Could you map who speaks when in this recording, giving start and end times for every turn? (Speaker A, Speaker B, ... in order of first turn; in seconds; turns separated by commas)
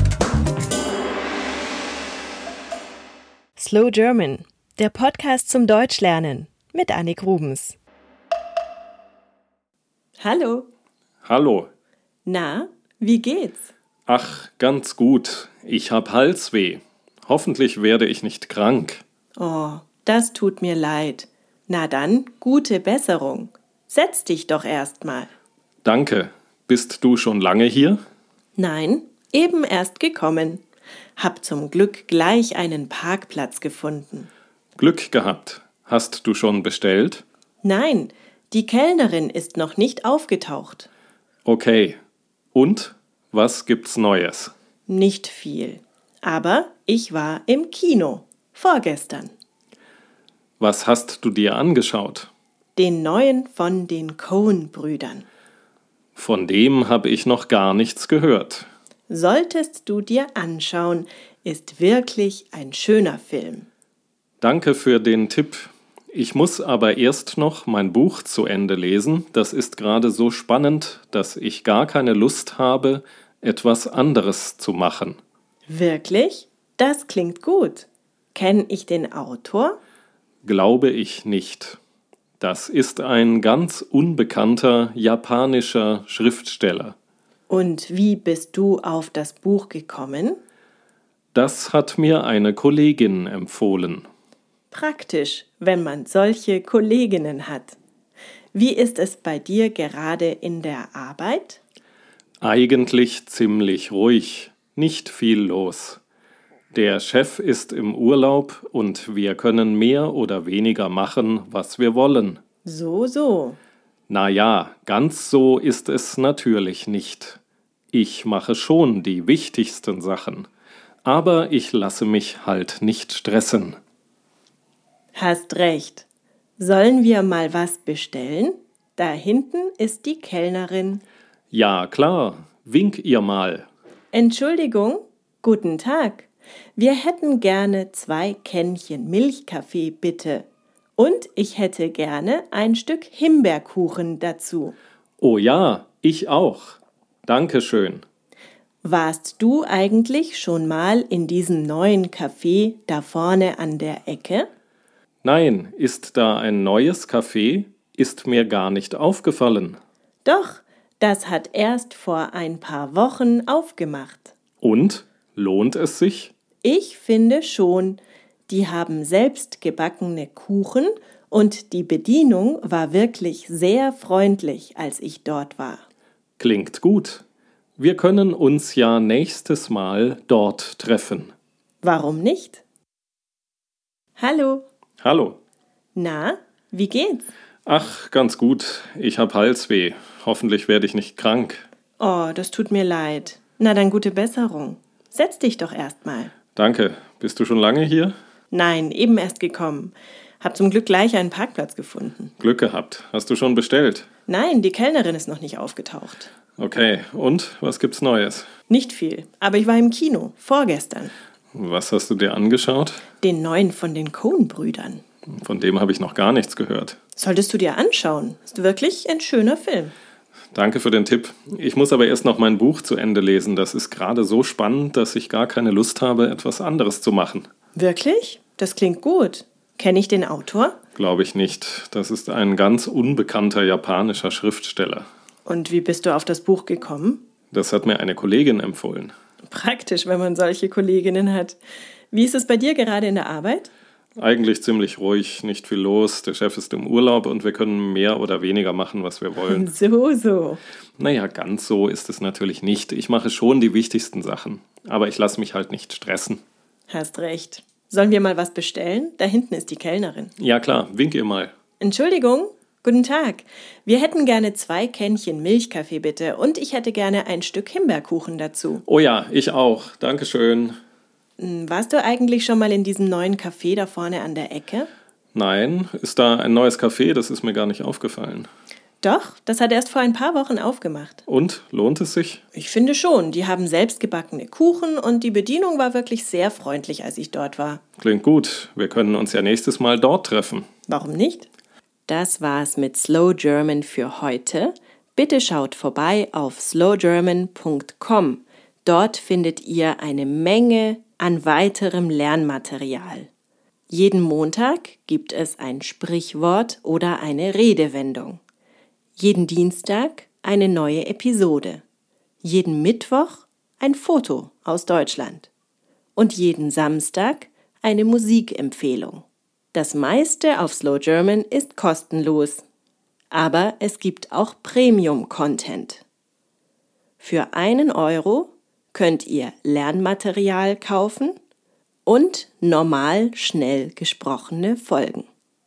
Speaker A: 3.5-7.8, Speaker A: 10.2-10.7, Speaker B: 11.2-11.7, Speaker A: 12.2-13.7, Speaker B: 14.1-19.0, Speaker A: 19.4-25.3, Speaker B: 25.8-28.0, Speaker A: 28.6-30.6, Speaker A: 31.2-34.3, Speaker B: 34.8-37.2, Speaker A: 37.6-40.9, Speaker B: 41.4-42.0, Speaker B: 42.5-44.5, Speaker A: 44.9-49.3, Speaker B: 50.6-52.3, Speaker A: 52.8-55.2, Speaker B: 56.1-58.7, Speaker A: 59.1-63.7, Speaker B: 64.4-75.2, Speaker A: 75.7-79.8, Speaker B: 80.4-81.8, Speaker B: 82.4-86.9, Speaker A: 87.5-90.4, Speaker B: 91.3-94.1, Speaker A: 94.7-97.8, Speaker A: 98.5-101.6, Speaker B: 102.4-106.0, Speaker B: 106.7-112.4, Speaker A: 112.6-113.6, Speaker B: 114.1-117.4, Speaker B: 117.9-120.5, Speaker B: 121.0-123.8, Speaker A: 125.1-126.0, Speaker A: 126.6-131.0, Speaker B: 131.5-133.7, Speaker A: 134.1-140.4, Speaker A: 141.0-144.8, Speaker B: 145.2-148.0, Speaker A: 148.8-154.4, Speaker B: 155.2-159.8, Speaker A: 160.2-164.3, Speaker B: 164.6-166.3, Speaker A: 166.6-175.8, Speaker B: 176.4-177.2, Speaker B: 177.8-181.3, Speaker A: 181.8-182.6, Speaker A: 184.2-184.6, Speaker B: 185.0-185.4, Speaker A: 185.9-187.3, Speaker B: 187.7-191.6, Speaker A: 192.0-196.3, Speaker B: 196.6-198.1, Speaker A: 198.5-202.3, Speaker B: 202.4-204.1, Speaker A: 204.3-206.3, Speaker B: 206.6-208.5, Speaker A: 208.7-211.1, Speaker B: 211.5-213.0, Speaker A: 213.2-215.0, Speaker B: 215.3-217.0, Speaker A: 217.2-219.9, Speaker B: 220.5-227.5, Speaker A: 227.7-230.8, Speaker B: 230.9-235.1, Speaker A: 235.4-237.2, Speaker B: 237.5-239.1, Speaker A: 239.5-241.6, Speaker A: 242.1-243.7, Speaker B: 244.2-249.7, Speaker A: 249.5-250.6, Speaker B: 251.0-256.4, Speaker A: 256.9-260.3, Speaker B: 260.4-261.5, Speaker A: 261.8-268.8, Speaker B: 268.9-270.8, Speaker A: 271.4-274.9, Speaker B: 275.3-278.5, Speaker A: 279.0-281.2, Speaker B: 281.3-282.4, Speaker A: 282.5-287.8, Speaker B: 288.0-290.6, Speaker A: 290.9-291.5, Speaker A: 292.1-303.3, Speaker A: 303.9-308.4, Speaker A: 309.2-311.8, Speaker A: 312.4-315.5, Speaker A: 316.1-322.6, Speaker A: 323.3-326.0, Speaker A: 327.2-331.3, Speaker A: 332.1-335.3